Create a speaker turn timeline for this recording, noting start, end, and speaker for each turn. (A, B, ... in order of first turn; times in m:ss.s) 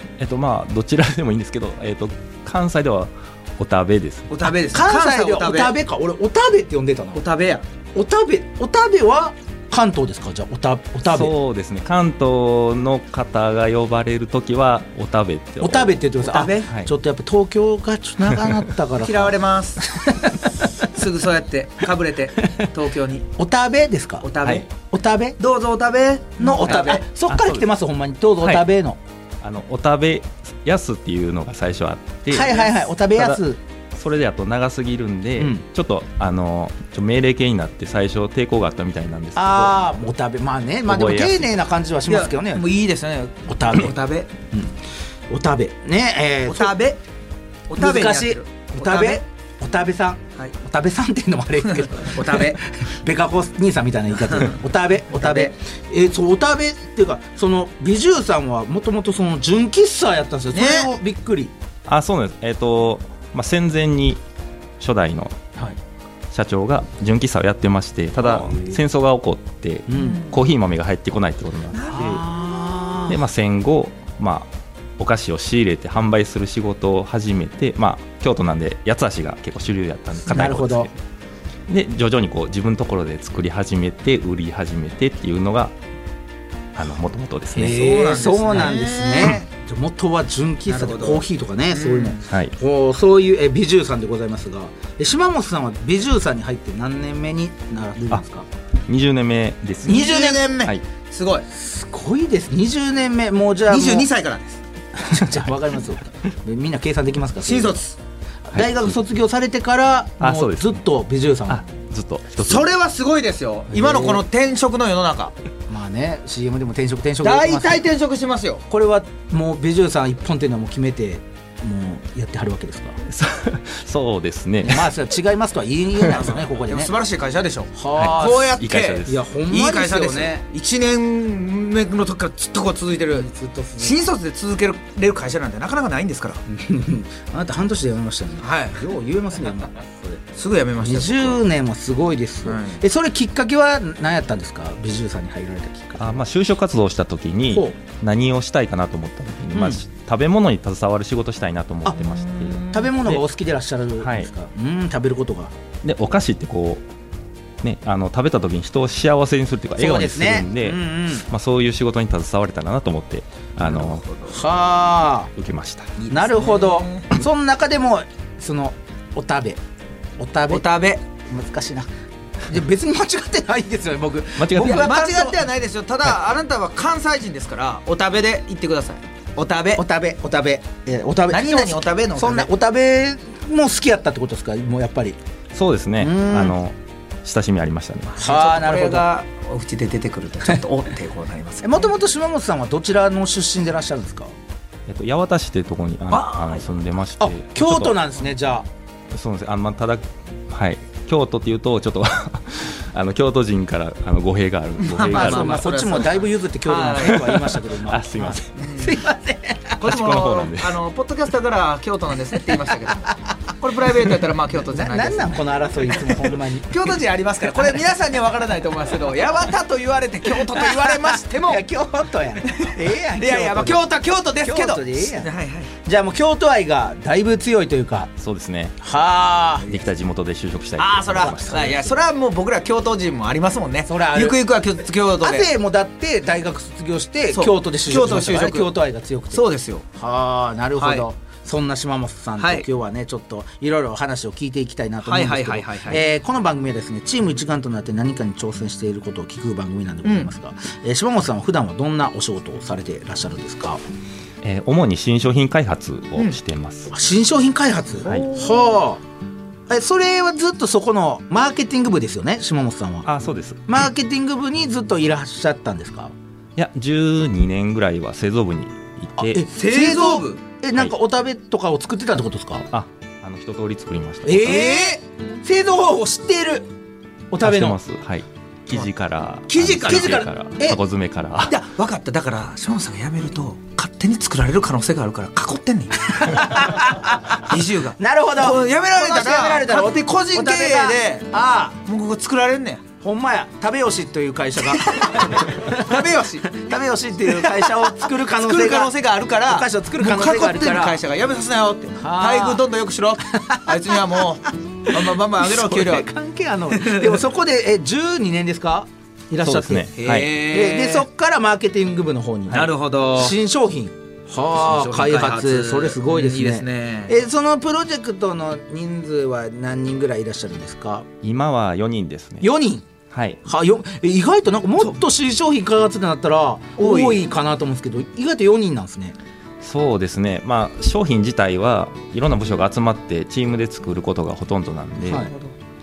0:00.2-0:04.3 A
0:04.3-0:05.7 B
0:04.7-0:07.2 C
0:07.1-0:07.6 B
0:07.9-0:11.3 C
0:11.0-0:16.0 A
0:15.6-0:20.6 C
0:16.2-0:16.7 B
0:19.0-0:19.9 B
0:20.8-0:23.3 B
0:23.4-0:24.3 C
0:24.2-0:24.7 B
0:24.8-0:25.4 C
0:25.4-0:27.0 B
0:26.4-0:29.0 C
0:26.6-0:27.7 A
0:29.4-0:33.4 A
0:32.3-0:33.6 C
0:33.9-0:39.8 A
0:35.4-0:35.6 C
0:39.4-0:42.7 C
0:40.9-0:41.5 A
0:42.1-0:44.3 B
0:43.5-0:43.9 C
0:44.5-0:44.8 C
0:45.3-0:46.8 C
0:46.5-0:47.0 B
0:47.7-0:49.2 B
0:47.8-1:01.5 C
0:51.8-0:52.6 B
0:54.2-0:54.6 B
0:55.1-0:55.5 B
1:00.5-1:00.9 B
1:01.9-1:04.2 A
1:04.8-1:05.4 A
1:06.3-1:12.2 A
1:08.2-1:08.8 C
1:09.9-1:10.2 C
1:09.9-1:10.4 B
1:11.7-1:12.2 B
1:11.9-1:13.2 C
1:13.1-1:21.0 A
1:20.2-1:20.9 C
1:21.7-1:25.7 A
1:26.7-1:27.8 A
1:27.5-1:38.4 C
1:27.6-1:29.4 B
1:30.6-1:32.2 B
1:32.3-1:32.5 A
1:38.9-1:40.1 A
1:39.8-1:41.4 B
1:39.8-1:40.5 C
1:41.5-1:44.1 C
1:43.7-1:44.6 B
1:44.9-1:47.8 C
1:47.4-1:48.0 B
1:48.5-1:51.6 C
1:48.5-1:49.0 A
1:50.2-1:50.8 A
1:51.5-1:52.7 A
1:52.4-1:55.3 B
1:53.7-1:54.2 C
1:55.7-1:57.8 C
1:57.2-1:58.6 B
1:58.7-2:03.0 C
2:03.1-2:04.9 A
2:04.6-2:06.9 C
2:06.1-2:16.4 B
2:07.7-2:10.4 C
2:08.0-2:09.2 A
2:13.1-2:14.0 C
2:16.5-2:20.2 C
2:18.4-2:18.8 B
2:20.3-2:21.4 B
2:20.8-2:26.2 C
2:22.4-2:22.8 B
2:26.0-2:33.2 A
2:27.5-2:27.8 C
2:29.5-2:29.8 C
2:32.0-2:32.9 B
2:32.7-2:35.5 C
2:34.0-2:34.3 A
2:35.8-2:36.8 A
2:37.6-2:44.0 A
2:39.8-2:41.3 C
2:43.7-2:44.4 B
2:44.3-2:45.3 C
2:45.4-2:45.9 A
2:46.0-2:47.1 B
2:46.0-2:49.6 C
2:50.2-2:50.7 C
2:50.5-2:51.0 B
2:51.2-2:51.9 C
2:52.4-2:55.4 C
2:54.4-2:55.0 A
2:54.6-2:59.8 B
2:59.8-3:05.2 C
3:01.3-3:02.5 B
3:05.5-3:08.2 A
3:06.0-3:06.6 C
3:08.1-3:11.9 B
3:08.2-3:09.0 C
3:11.6-3:14.3 C
3:14.9-3:18.0 A
3:16.1-3:16.6 B
3:17.2-3:18.7 C
3:19.1-3:25.7 A
3:24.8-3:27.4 B
3:25.0-3:29.9 C
3:27.0-3:28.5 A
3:28.5-3:29.0 B
3:29.8-3:41.6 B
3:29.8-3:30.8 A
3:34.7-3:36.8 C
3:40.5-3:43.9 C
3:42.4-3:45.7 B
3:44.4-3:45.3 C
3:45.8-3:48.1 C
3:48.2-3:48.8 A
3:48.8-3:49.7 C
3:49.6-3:51.9 A
3:50.8-3:55.5 B
3:51.1-3:51.8 C
3:53.8-3:54.4 C
3:55.2-4:13.8 C
3:57.3-3:58.7 B
3:59.3-3:59.8 B
4:00.8-4:01.0 B
4:02.4-4:02.6 B
4:05.0-4:06.0 B
4:10.0-4:10.3 B
4:14.4-4:16.9 A
4:16.9-4:19.0 C
4:18.0-4:18.6 B
4:19.7-4:23.1 C
4:23.0-4:23.7 A
4:23.7-4:26.1 C
4:26.6-4:29.4 A
4:29.2-4:32.7 C
4:29.5-4:30.4 B
4:32.7-4:34.7 A
4:34.2-4:36.7 C
4:34.4-4:35.0 B
4:37.3-4:37.8 C
4:37.4-4:41.6 A
4:39.5-4:40.2 B
4:39.8-4:40.8 C
4:41.4-4:46.8 B
4:46.2-4:51.8 C
4:47.4-4:51.3 B
4:51.8-4:52.8 B
4:53.0-5:01.0 C
4:54.8-4:56.5 B
4:57.3-5:06.1 B
5:02.0-5:02.6 C
5:03.3-5:04.2 C
5:04.9-5:21.1 C
5:06.7-5:07.1 B
5:09.4-5:10.3 A
5:10.0-5:11.0 B
5:12.5-5:13.4 B
5:14.6-5:17.1 B
5:21.2-5:22.5 A
5:22.4-5:22.8 C
5:23.1-5:23.4 A
5:23.4-5:29.2 C
5:26.8-5:27.2 B
5:29.6-5:35.3 A
5:35.1-5:35.5 B